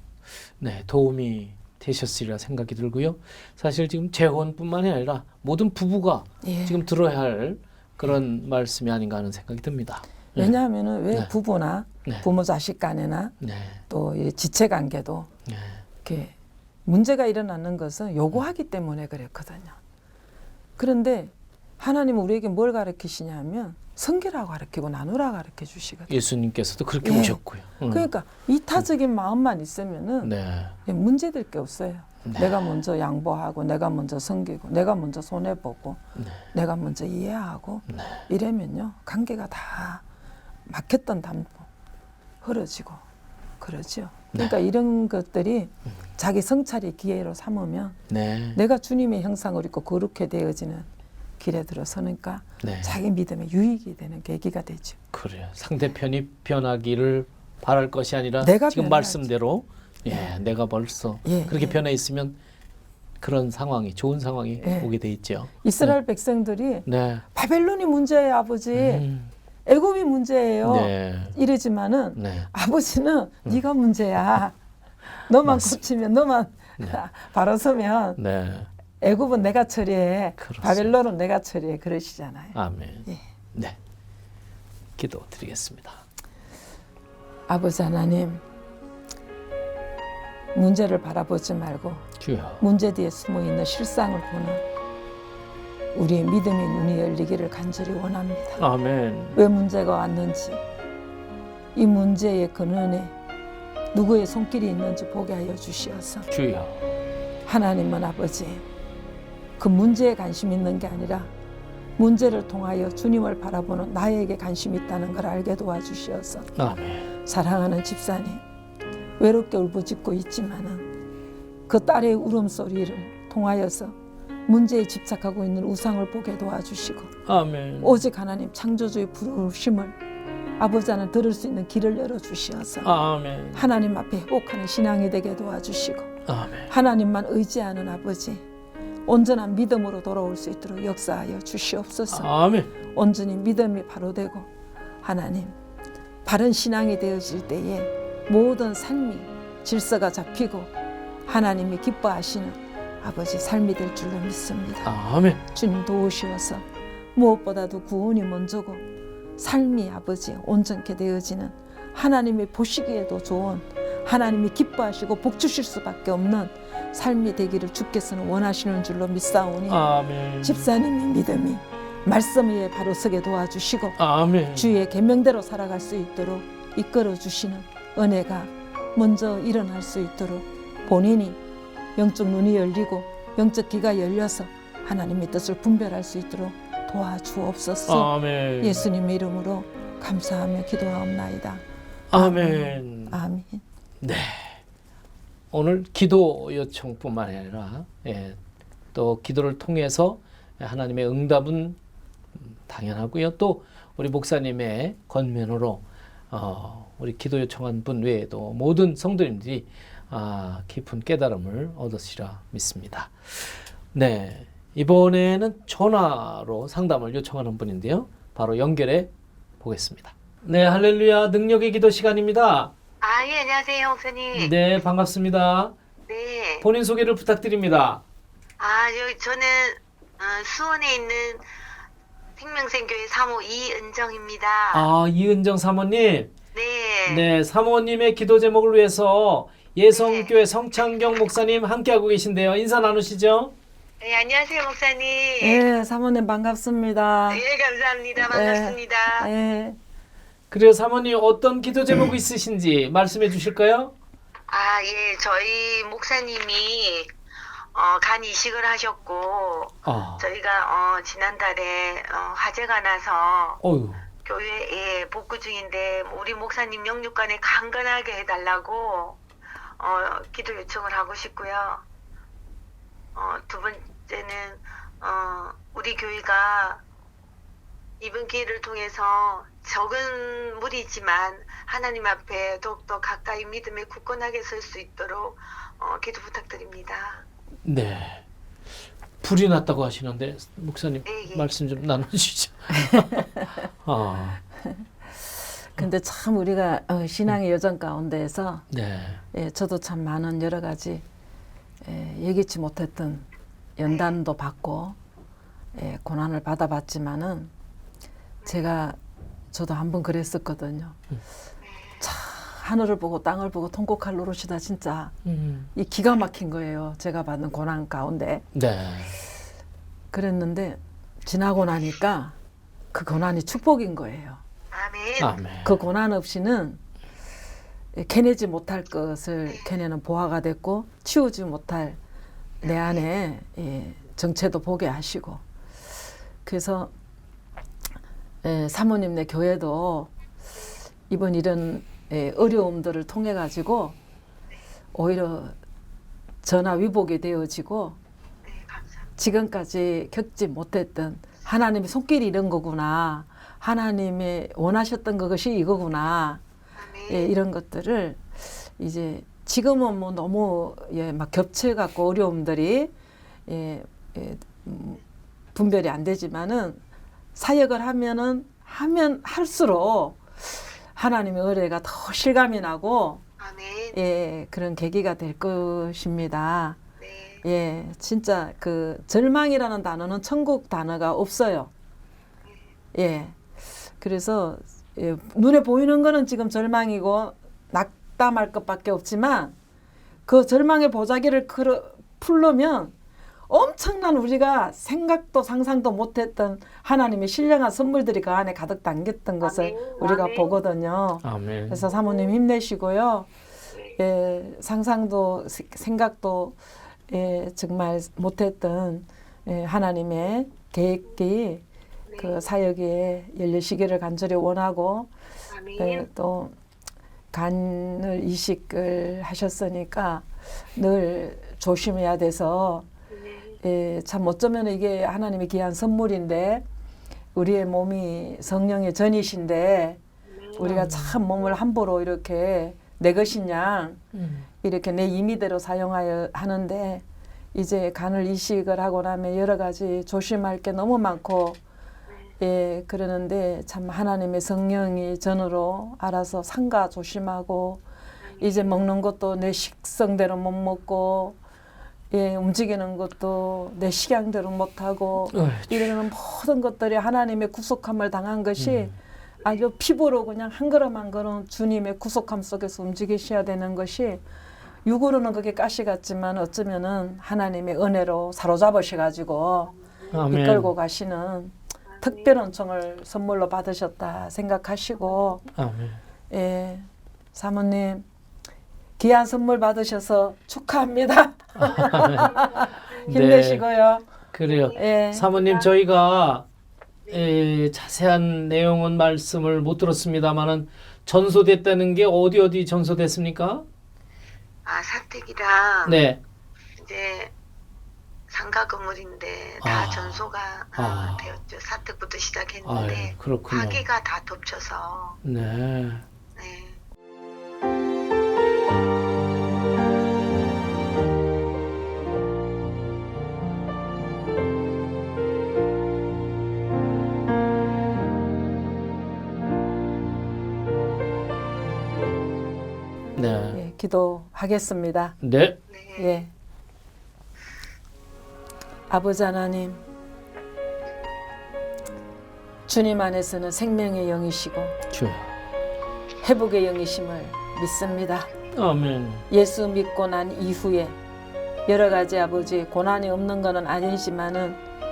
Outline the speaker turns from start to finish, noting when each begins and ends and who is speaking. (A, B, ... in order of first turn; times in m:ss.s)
0:00.3-0:10.6 A
0:06.4-0:06.8 B
0:10.4-0:13.4 B
0:13.4-0:13.8 A
0:13.9-0:15.3 B
0:15.5-0:15.8 A
0:16.0-0:16.4 B
0:16.9-0:19.8 B
0:20.8-0:26.1 B
0:26.1-0:28.1 A
0:27.0-0:30.3 B
0:30.2-0:30.8 A
0:30.8-0:36.0 B
0:32.2-0:32.7 A
0:36.2-0:36.4 A
0:36.5-0:40.0 B
0:37.9-0:38.3 A
0:40.7-0:41.7 B
0:42.4-0:43.0 B
0:43.6-0:48.0 B
0:48.1-0:48.6 A
0:48.5-0:50.9 B
0:51.4-0:55.0 B
0:52.6-0:53.0 A
0:55.1-1:02.4 A
0:58.4-0:59.2 B
1:01.2-1:01.8 B
1:03.2-1:06.0 A
1:04.6-1:04.9 B
1:05.6-1:09.1 B
1:06.9-1:07.2 A
1:08.7-1:09.3 A
1:09.7-1:14.6 B
1:10.6-1:11.4 A
1:12.2-1:12.5 A
1:15.3-1:18.2 B
1:15.4-1:15.8 A
1:18.2-1:18.7 A
1:19.0-1:23.2 B
1:20.4-1:20.9 A
1:22.6-1:23.8 A
1:25.0-1:26.0 A
1:27.5-1:28.4 B
1:30.5-1:32.1 B
1:32.2-1:32.6 A
1:32.6-1:34.6 B
1:35.9-1:38.6 B
1:38.6-1:39.4 A
1:39.3-1:40.6 B
1:41.8-1:43.1 B
1:43.9-1:46.3 B
1:46.3-1:46.8 A
1:47.4-1:48.7 B
1:49.6-1:51.3 B
1:52.0-1:56.5 B
1:56.6-1:57.1 A
1:57.2-1:58.4 B
1:59.2-2:00.9 B
2:01.7-2:03.9 B
2:04.5-2:07.1 B
2:07.3-2:08.0 A
2:07.8-2:10.0 B
2:10.6-2:12.9 B
2:12.8-2:13.7 A
2:13.5-2:16.1 B
2:16.3-2:16.7 A
2:16.7-2:18.4 B
2:19.1-2:22.3 B
2:22.1-2:22.7 A
2:22.9-2:24.5 B
2:25.0-2:25.6 B
2:26.2-2:30.7 B
2:31.3-2:34.9 B
2:34.8-2:35.4 A
2:35.5-2:36.6 B
2:37.2-2:38.8 B
2:39.4-2:49.9 B
2:49.7-2:50.7 A
2:50.4-2:54.0 B
2:54.0-2:54.8 A
2:54.5-3:01.4 B
3:02.0-3:11.6 B
3:07.9-3:08.8 A
3:12.1-3:13.2 A
3:12.1-3:13.6 B
3:14.0-3:14.6 A
3:15.5-3:18.4 A
3:18.9-3:21.8 A
3:22.4-3:42.7 A
3:43.0-3:44.6 C
3:44.3-3:45.8 A
3:46.1-3:46.7 C
3:46.6-3:48.0 A
3:48.6-3:51.4 C
3:52.4-3:54.9 C
3:54.7-3:56.3 A
3:56.5-3:57.3 C
3:57.1-4:03.5 A
3:59.9-4:00.3 C
4:04.0-4:05.6 C
4:05.4-4:07.4 B
4:07.3-4:09.3 C
4:08.2-4:09.8 B
4:10.5-4:13.9 A
4:14.5-4:17.1 C
4:17.7-4:23.6 C
4:19.8-4:20.2 A
4:23.6-4:24.0 A
4:24.2-4:29.2 C
4:29.8-4:31.8 C
4:33.2-4:36.8 C
4:38.0-4:47.2 C
4:47.6-4:48.2 A
4:49.2-4:54.4 A
4:51.1-4:51.5 C
4:52.8-4:53.5 B
4:55.7-4:58.7 B
4:58.7-4:59.2 A
4:59.3-5:01.0 B
5:01.8-5:03.3 B
5:03.8-5:05.0 B
5:03.9-5:04.1 C
5:05.8-5:07.5 B
5:08.5-5:09.0 B
5:09.5-5:11.0 B
5:11.6-5:12.0 C
5:12.0-5:15.2 B
5:15.2-5:15.7 A
5:15.7-5:18.5 B
5:18.5-5:19.1 A
5:20.1-5:22.4 B
5:22.9-5:24.4 B
5:24.7-5:25.4 C
5:25.2-5:25.8 A
5:25.6-5:26.8 B
5:28.0-5:32.0 B
5:29.5-5:29.7 C
5:32.6-5:35.4 B
5:32.6-5:33.0 C
5:36.4-5:36.9 B
5:38.4-5:40.1 B
5:41.1-5:44.0 B
5:44.9-5:45.6 B
5:46.4-5:48.0 B
5:48.4-5:49.1 C
5:49.2-5:56.4 B
5:56.8-5:57.3 C
5:57.1-6:02.9 B
6:03.5-6:05.0 B
6:05.6-6:06.8 B
6:07.4-6:10.4 B
6:11.0-6:13.2 B
6:13.4-6:14.0 C
6:13.9-6:16.8 B
6:17.0-6:17.4 C
6:17.4-6:21.7 B
6:22.9-6:23.4 B
6:24.0-6:29.6 B
6:30.3-6:32.9 B
6:33.5-6:43.3 B
6:39.4-6:40.6 C
6:41.2-6:41.9 A
6:42.0-6:42.3 C
6:43.7-6:44.0 C
6:44.0-6:46.6 B
6:47.1-6:51.6 B
6:52.1-6:52.5 C
6:52.2-6:55.1 B
6:55.5-6:56.1 C
6:55.8-6:56.6 B
6:57.3-7:02.9 B
7:03.1-7:03.6 C
7:03.6-7:06.6 B
7:07.4-7:10.0 B
7:10.3-7:10.8 C
7:10.6-7:14.0 B
7:10.6-7:11.2 A
7:14.1-7:14.5 A
7:14.6-7:21.6 B
7:22.1-7:22.3 C
7:22.4-7:27.8 B
7:28.2-7:28.7 C
7:28.4-7:31.4 B
7:32.1-7:44.2 B
7:35.3-7:36.1 A
7:38.6-7:38.9 A
7:44.8-7:49.7 B
7:50.1-7:50.7 A
7:50.3-7:55.5 B
7:51.9-7:52.4 C
7:55.6-7:56.0 A
7:56.3-7:58.1 B
7:59.0-8:04.1 B
8:01.6-8:02.4 A
8:03.1-8:03.6 A
8:04.3-8:06.5 A
8:04.5-8:05.7 C
8:04.7-8:05.3 B
8:07.1-8:13.7 A
8:14.7-8:16.0 C
8:15.8-8:16.2 A
8:16.8-8:17.3 C
8:18.3-8:25.2 C
8:19.6-8:20.2 A
8:20.8-8:21.4 A
8:22.6-8:23.8 A
8:25.2-8:26.0 A
8:26.4-8:26.8 C
8:43.2-8:43.6 A
8:43.5-8:45.2 B
8:45.2-8:45.6 A
8:45.7-8:46.2 C
8:46.0-8:46.3 B
8:48.9-8:49.8 B
8:52.7-8:54.8 B
8:54.9-8:55.3 A
8:56.2-8:58.3 B
8:58.5-8:59.3 A
8:59.3-9:01.0 B
9:01.7-9:04.6 B